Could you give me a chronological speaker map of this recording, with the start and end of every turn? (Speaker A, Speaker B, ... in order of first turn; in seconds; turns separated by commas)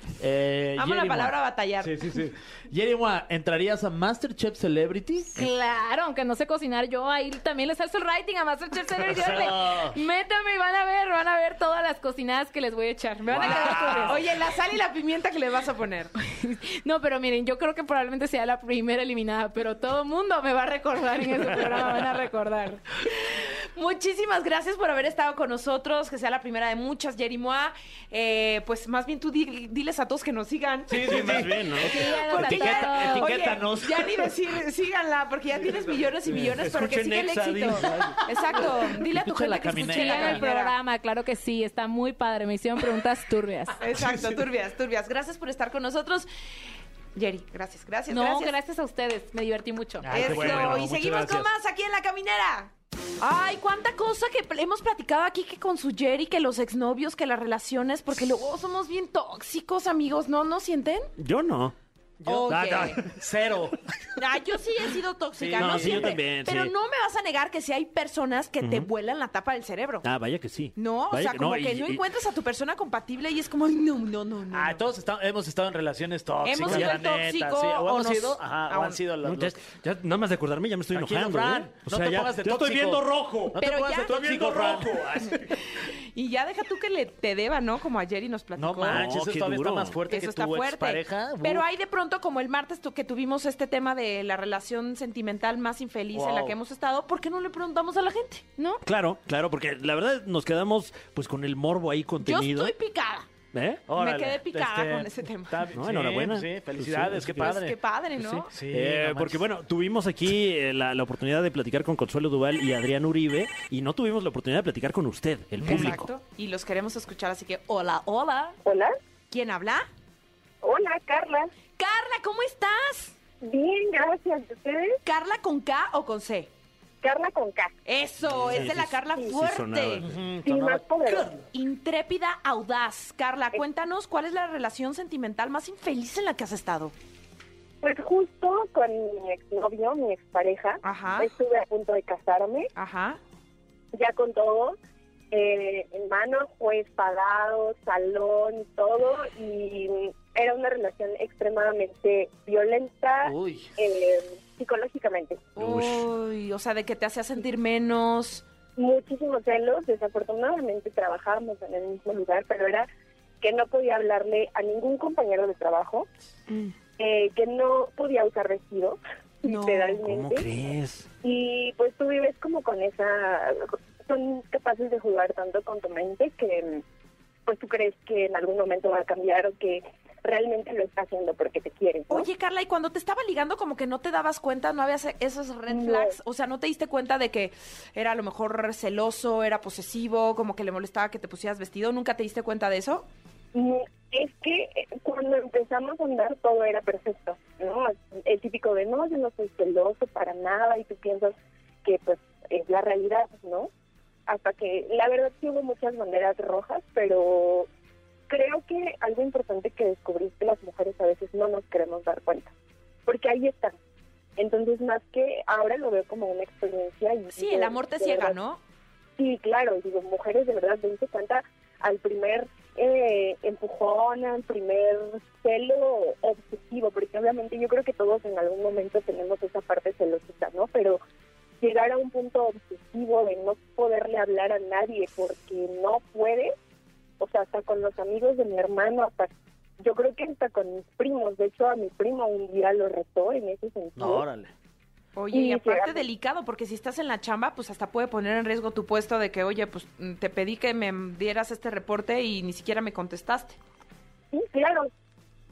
Speaker A: 0.2-5.5, Speaker B: 0.8-2.2, Speaker C: 5.3-14.2, Speaker A: 9.0-10.0, Speaker A: 13.3-14.0, Speaker B: 13.4-16.1, Speaker D: 13.5-14.1, Speaker C: 16.2-22.8, Speaker B: 23.1-40.7, Speaker A: 30.9-34.3, Speaker D: 30.9-32.0, Speaker C: 31.9-33.4, Speaker D: 36.3-38.2, Speaker A: 37.7-40.4, Speaker C: 39.9-43.8, Speaker B: 43.8-46.3, Speaker A: 43.9-44.4, Speaker B: 47.1-48.5, Speaker C: 48.1-50.4, Speaker A: 50.0-51.5, Speaker B: 50.1-61.1, Speaker D: 50.2-50.8, Speaker D: 61.2-63.1, Speaker B: 62.2-63.0, Speaker A: 62.2-63.8, Speaker B: 64.2-70.1, Speaker A: 65.3-66.2, Speaker D: 65.5-66.7, Speaker D: 68.6-68.9, Speaker D: 70.0-72.0, Speaker B: 70.8-74.8, Speaker A: 74.5-79.6, Speaker B: 76.4-79.0, Speaker D: 76.6-77.0, Speaker D: 79.2-85.6, Speaker A: 80.9-85.4, Speaker B: 83.6-89.1, Speaker A: 88.5-91.7, Speaker D: 88.8-90.0, Speaker B: 90.1-98.4, Speaker A: 96.1-96.6, Speaker D: 98.8-102.7, Speaker B: 102.2-103.3, Speaker D: 103.5-103.8, Speaker A: 103.9-107.8, Speaker B: 103.9-105.6, Speaker D: 105.7-107.6, Speaker B: 107.4-108.5, Speaker D: 108.2-116.1, Speaker A: 108.5-109.4, Speaker A: 115.6-116.0, Speaker B: 115.6-118.6, Speaker E: 118.6-119.0, Speaker B: 119.3-119.9, Speaker E: 120.6-121.5, Speaker B: 121.8-123.2, Speaker E: 123.4-125.0, Speaker B: 125.0-126.5, Speaker E: 127.0-127.7, Speaker B: 127.8-130.1, Speaker D: 128.2-130.1, Speaker A: 130.0-131.4, Speaker E: 130.4-131.3, Speaker B: 131.5-136.9, Speaker E: 137.8-142.7, Speaker B: 140.8-141.3, Speaker B: 142.8-143.2, Speaker E: 143.9-144.8, Speaker E: 145.3-155.4, Speaker A: 153.2-153.7, Speaker B: 155.6-158.4, Speaker D: 155.6-156.1, Speaker E: 158.8-162.9, Speaker E: 163.4-166.1, Speaker E: 167.0-170.5, Speaker B: 169.4-170.0, Speaker D: 170.0-171.1, Speaker E: 171.2-176.8, Speaker E: 177.4-182.3, Speaker B: 182.1-193.1, Speaker E: 185.7-186.1, Speaker E: 193.5-203.7, Speaker E: 204.3-207.7, Speaker E: 208.3-212.5, Speaker E: 213.1-213.7, Speaker E: 214.4-218.4, Speaker B: 217.3-218.6, Speaker E: 219.2-231.0, Speaker E: 231.6-236.5, Speaker E: 237.2-244.2, Speaker A: 243.9-244.5, Speaker B: 245.1-253.6, Speaker E: 245.3-246.1, Speaker E: 254.3-254.9